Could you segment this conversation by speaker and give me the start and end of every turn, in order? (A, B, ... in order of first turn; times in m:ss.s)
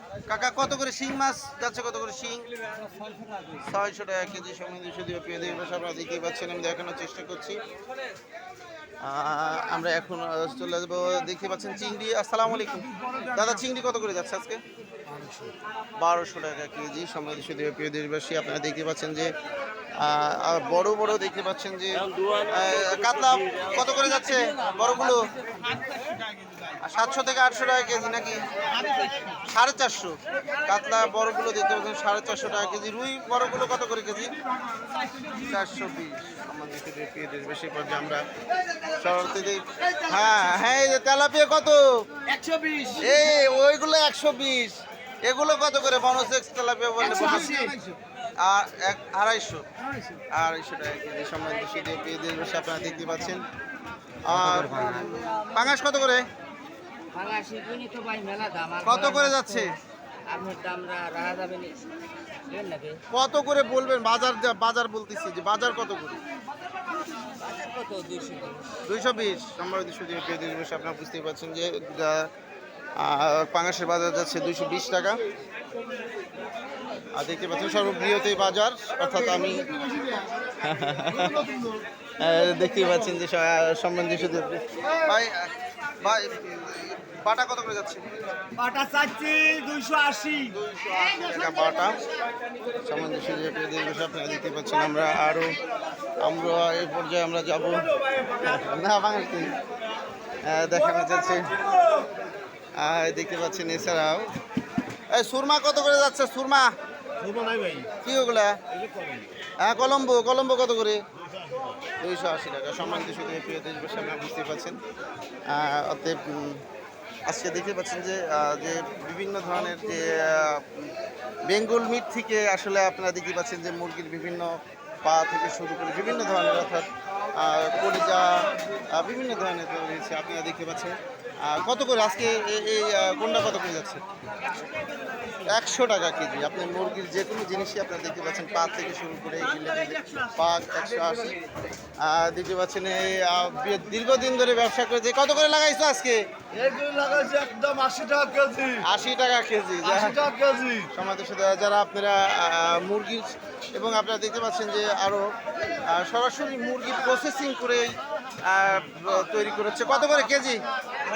0:00.3-0:02.5 A
0:02.8-0:03.6 B
0:03.6-0:07.6 A
0:09.0-0:14.6 A
0:15.1-0:15.5 C
0:16.0-0:19.3 A
0:20.0-0:25.3 A
0:26.8-0:30.2 A
0:30.7-0:34.4 A
0:35.2-0:38.2 A
0:38.8-0:41.9 A
0:42.3-0:43.0 C
0:42.9-0:47.8 A
0:47.2-0:47.9 B
0:48.4-0:49.7 A
0:50.3-0:53.4 A
0:54.2-0:56.2 A
0:57.1-0:59.8 B
0:58.8-0:59.7 A
1:00.3-1:01.9 B
1:02.5-1:03.0 B
1:03.1-1:06.2 A
1:07.3-1:08.8 B
1:08.9-1:12.3 A
1:13.0-1:15.2 A
1:17.2-1:19.9 A
1:20.6-1:28.1 A
1:28.6-1:30.3 B
1:28.7-1:30.4 C
1:30.4-1:32.0 A
1:32.8-1:35.6 A
1:36.2-1:39.5 A
1:40.5-1:41.6 A
1:42.8-1:44.3 A
1:45.1-1:46.7 A
1:47.2-1:47.9 C
1:48.0-1:48.6 A
1:48.8-1:49.2 C
1:49.6-1:51.0 A
1:52.0-1:54.8 A
1:55.5-1:56.6 A
1:57.3-2:00.9 A
2:01.5-2:04.5 A
2:05.0-2:14.0 A
2:15.4-2:21.4 A
2:22.0-2:26.2 A
2:26.5-2:28.9 C
2:28.8-2:30.2 A
2:29.8-2:30.9 C
2:30.9-2:35.2 A
2:35.9-2:37.9 A
2:38.4-2:40.6 A